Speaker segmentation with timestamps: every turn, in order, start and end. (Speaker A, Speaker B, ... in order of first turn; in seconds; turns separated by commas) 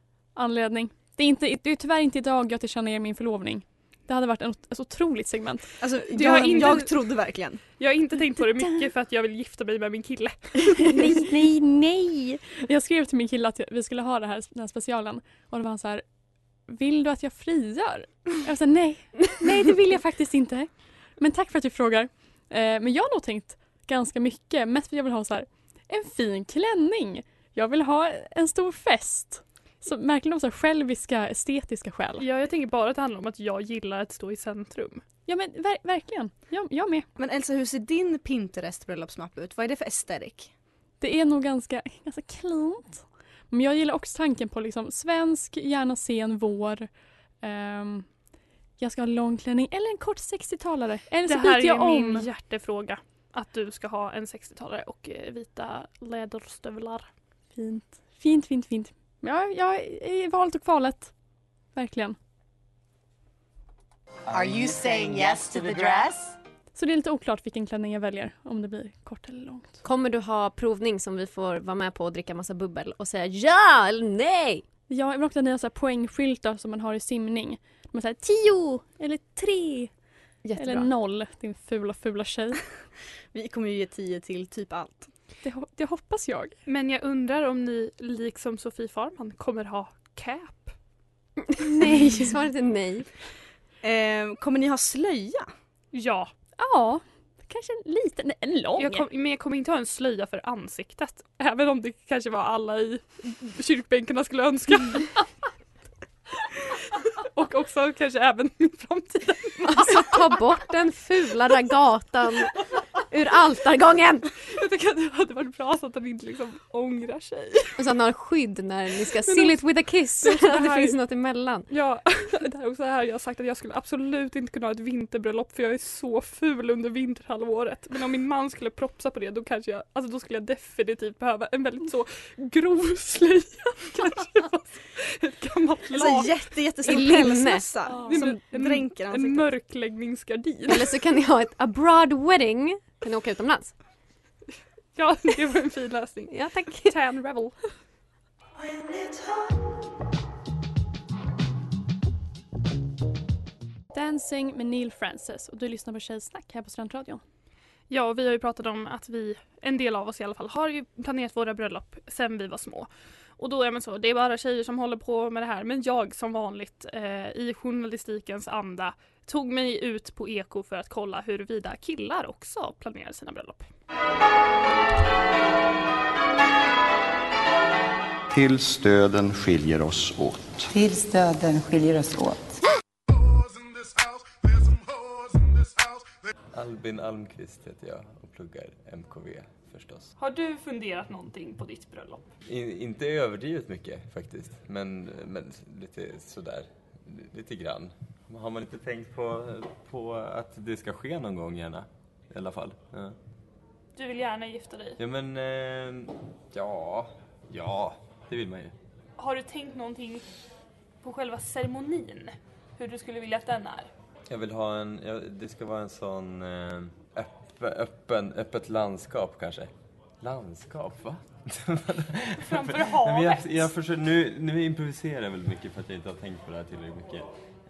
Speaker A: 0.3-6.8, Speaker B: 5.8-7.6, Speaker C: 6.1-6.9, Speaker C: 7.8-10.8, Speaker A: 10.9-16.0, Speaker A: 16.6-32.2, Speaker C: 32.2-35.0, Speaker A: 35.2-37.0, Speaker B: 37.2-40.5, Speaker A: 41.0-46.9, Speaker A: 47.4-48.2, Speaker A: 48.8-52.3, Speaker C: 51.2-57.1, Speaker A: 57.5-62.1, Speaker D: 64.5-66.0, Speaker A: 66.7-69.8, Speaker E: 69.8-74.6, Speaker A: 74.9-79.9, Speaker E: 80.4-80.9, Speaker A: 80.6-82.6, Speaker B: 83.3-85.1, Speaker A: 85.4-86.5, Speaker C: 86.7-90.7, Speaker A: 91.8-92.3, Speaker E: 91.8-93.1, Speaker B: 93.8-95.5, Speaker C: 95.9-96.3, Speaker A: 96.6-99.0, Speaker C: 98.8-105.2, Speaker C: 107.3-110.4, Speaker E: 109.7-114.3, Speaker C: 114.5-117.8, Speaker E: 117.8-121.7, Speaker C: 119.3-121.0, Speaker C: 121.7-140.9, Speaker B: 135.9-139.5, Speaker E: 136.8-138.0, Speaker E: 140.7-143.8, Speaker C: 144.9-147.7, Speaker E: 146.3-146.9, Speaker A: 153.9-157.2, Speaker C: 157.9-173.7, Speaker F: 178.3-180.7, Speaker D: 180.7-182.3, Speaker G: 186.5-190.1, Speaker C: 190.2-192.3, Speaker G: 192.4-203.2, Speaker C: 203.9-205.0, Speaker G: 205.0-208.8, Speaker C: 209.2-210.3, Speaker C: 211.0-213.9, Speaker G: 214.3-227.3, Speaker C: 222.5-223.7